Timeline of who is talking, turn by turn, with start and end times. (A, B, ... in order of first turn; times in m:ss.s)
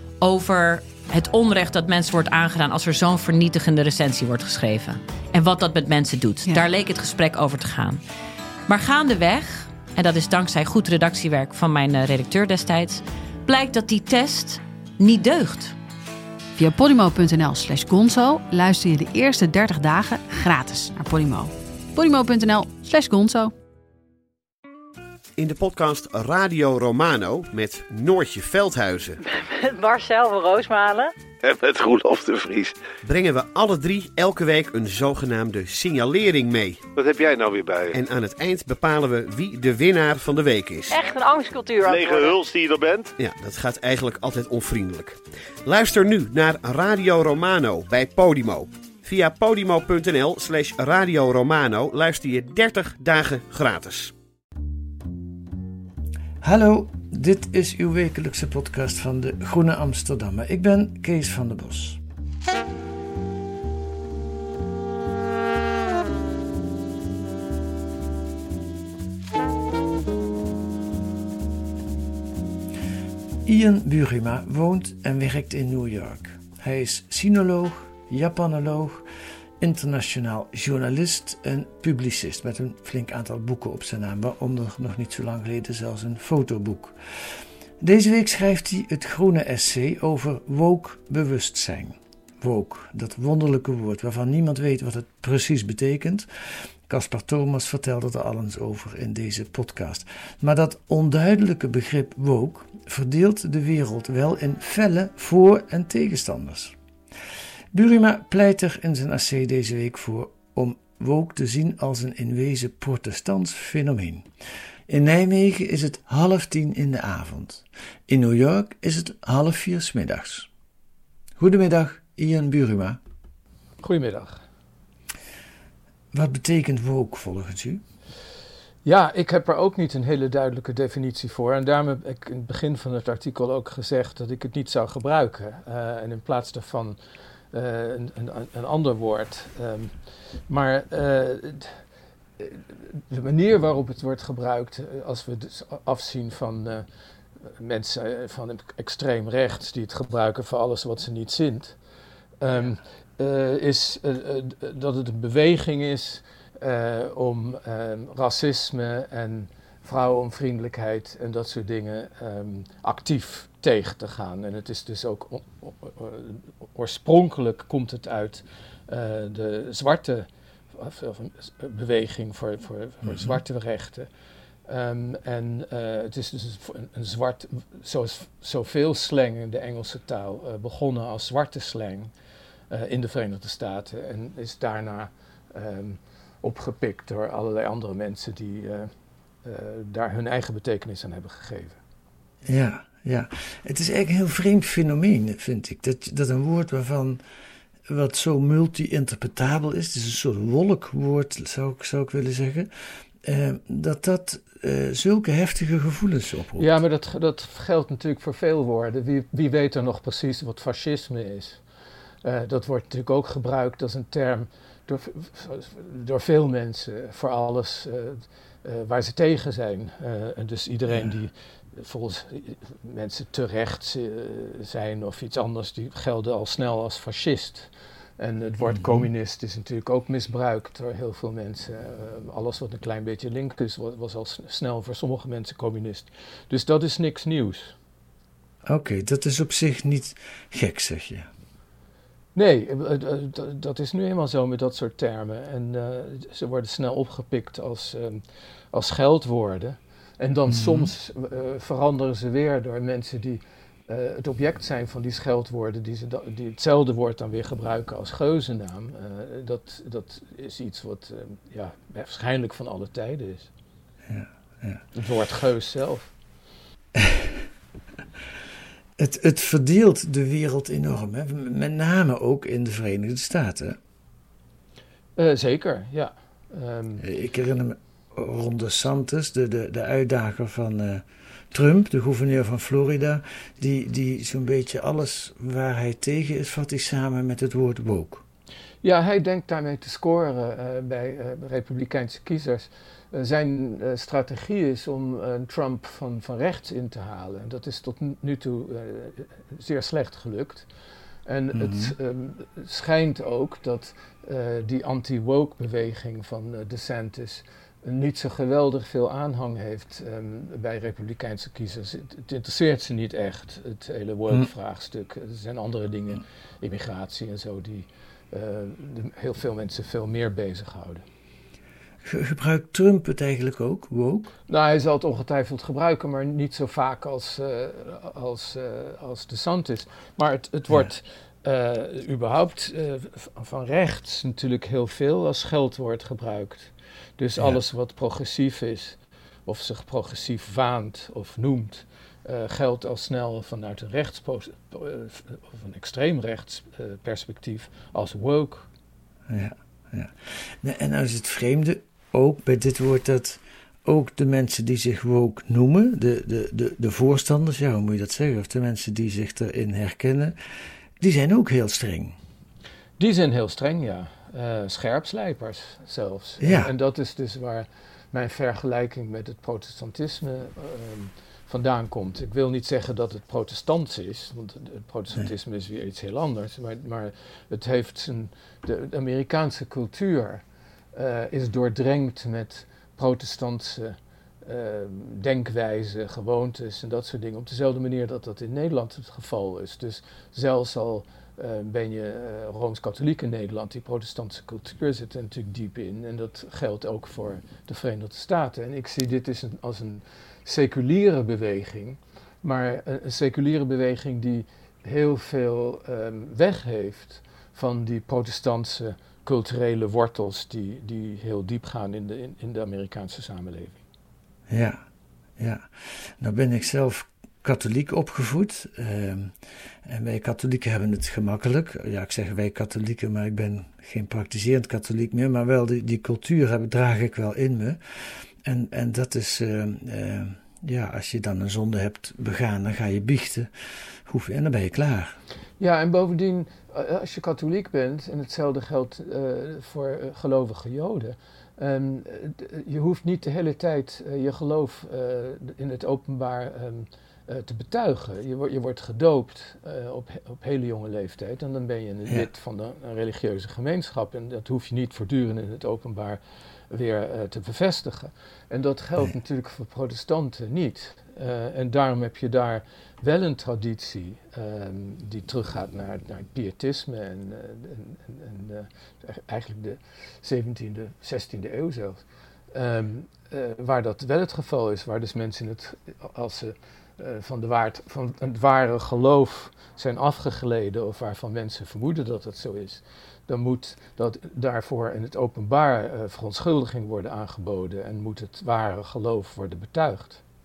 0:00.2-0:08.0 A
0:08.7-0:15.7 A
0:16.6-0:23.5 B
0:25.4-0:29.2 C
0:29.2-0:31.1 D
0:31.4-0:32.7 E
0:33.0-0:36.8 C
0:37.0-0:38.0 E
0:37.9-0:41.0 C
0:40.9-0:42.4 D
0:41.8-0:43.1 E
0:43.2-0:54.1 C
0:56.4-1:02.0 F
1:13.4-1:19.0 F
1:19.6-1:46.8 F
1:47.7-1:54.3 F
1:54.9-2:00.5 F
2:01.4-2:03.0 F
2:03.8-2:04.4 G
2:06.1-2:07.8 F
2:08.8-2:17.0 G
2:17.5-2:21.8 G
2:22.4-2:26.8 G
2:27.4-2:31.8 G
2:32.4-2:54.1 G
2:53.0-2:53.4 F
2:54.6-3:02.1 G
3:02.7-3:08.9 G
3:09.4-3:11.8 G
3:12.4-3:17.2 F
3:17.9-3:22.7 F
3:23.2-3:26.7 F
3:26.6-3:31.6 G
3:32.2-3:57.7 G
3:48.6-3:49.1 F
3:58.6-4:01.3 F
4:02.3-4:08.2 G
4:08.7-4:23.5 G
4:10.5-4:10.9 F
4:24.1-4:24.8 F
4:24.9-4:26.1 G
4:26.9-4:27.4 F
4:29.0-4:33.8 F
4:35.2-4:37.0 G
4:37.0-4:48.2 F
4:48.8-5:00.6 G
5:01.2-5:21.0 G
5:01.5-5:01.9 F
5:22.0-5:24.3 F
5:24.5-5:48.7 G
5:49.3-6:00.4 F
6:01.0-6:02.2 F
6:03.0-6:53.8 G
6:06.4-6:06.7 F
6:54.5-6:54.8 F
6:55.4-6:59.3 F
6:59.8-7:13.5 F
7:14.0-7:15.2 F
7:15.6-8:10.2 G